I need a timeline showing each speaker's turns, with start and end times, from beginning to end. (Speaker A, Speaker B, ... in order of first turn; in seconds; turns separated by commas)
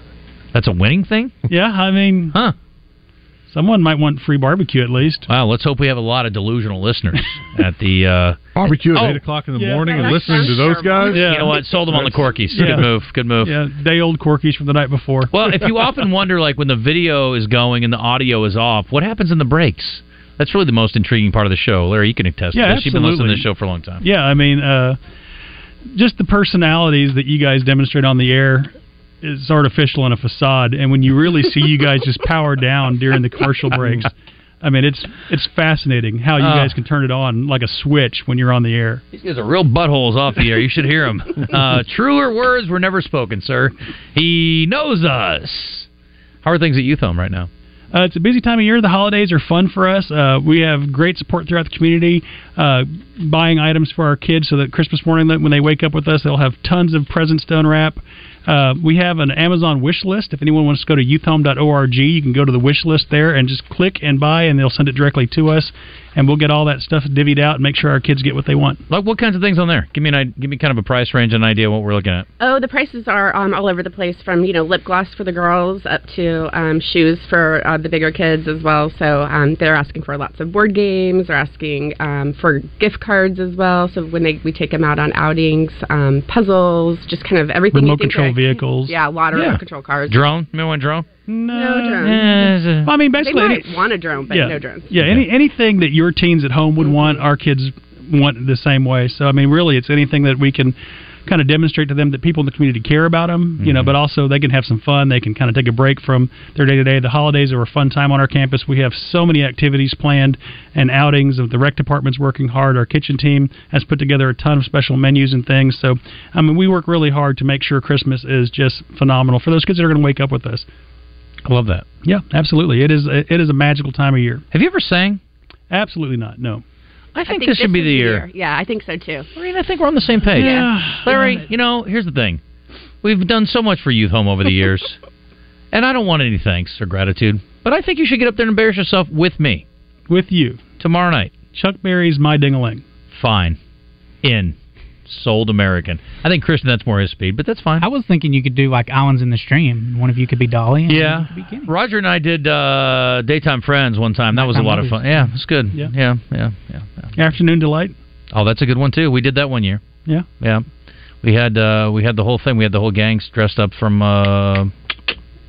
Speaker A: 0.5-1.4, Speaker B: 1.5-2.4, Speaker B: 3.5-5.3, Speaker A: 5.3-8.4, Speaker C: 8.6-11.3, Speaker A: 8.9-9.2, Speaker B: 9.5-15.8, Speaker D: 9.8-11.3, Speaker A: 11.1-13.6, Speaker A: 15.3-24.0, Speaker B: 22.5-23.5, Speaker B: 24.0-25.0, Speaker B: 25.9-34.1, Speaker B: 34.6-39.0, Speaker A: 36.4-36.8, Speaker A: 39.1-45.9, Speaker A: 46.4-47.5, Speaker B: 47.9-68.8, Speaker A: 68.9-72.3, Speaker D: 72.4-90.2, Speaker B: 87.7-89.0, Speaker A: 89.3-91.1, Speaker B: 91.3-93.7, Speaker D: 91.5-92.2, Speaker A: 92.0-92.9, Speaker D: 93.2-94.9, Speaker B: 94.3-100.8, Speaker A: 95.0-95.2, Speaker D: 96.8-97.2, Speaker B: 101.3-120.7, Speaker A: 103.6-104.0, Speaker A: 121.5-121.8, Speaker B: 122.0-124.4, Speaker A: 124.5-125.2, Speaker B: 125.7-126.6, Speaker A: 127.2-128.3, Speaker D: 127.3-129.3, Speaker A: 129.4-132.4, Speaker B: 130.3-131.5, Speaker D: 130.4-130.7, Speaker A: 133.0-135.0, Speaker A: 135.7-139.7, Speaker B: 140.1-140.6, Speaker A: 140.8-141.3, Speaker B: 141.5-142.8, Speaker A: 143.1-143.6, Speaker A: 144.2-144.6, Speaker A: 145.1-147.9, Speaker E: 147.8-151.7, Speaker A: 150.9-157.1, Speaker B: 157.2-157.9, Speaker A: 158.3-159.8, Speaker A: 160.4-160.7, Speaker A: 161.2-164.7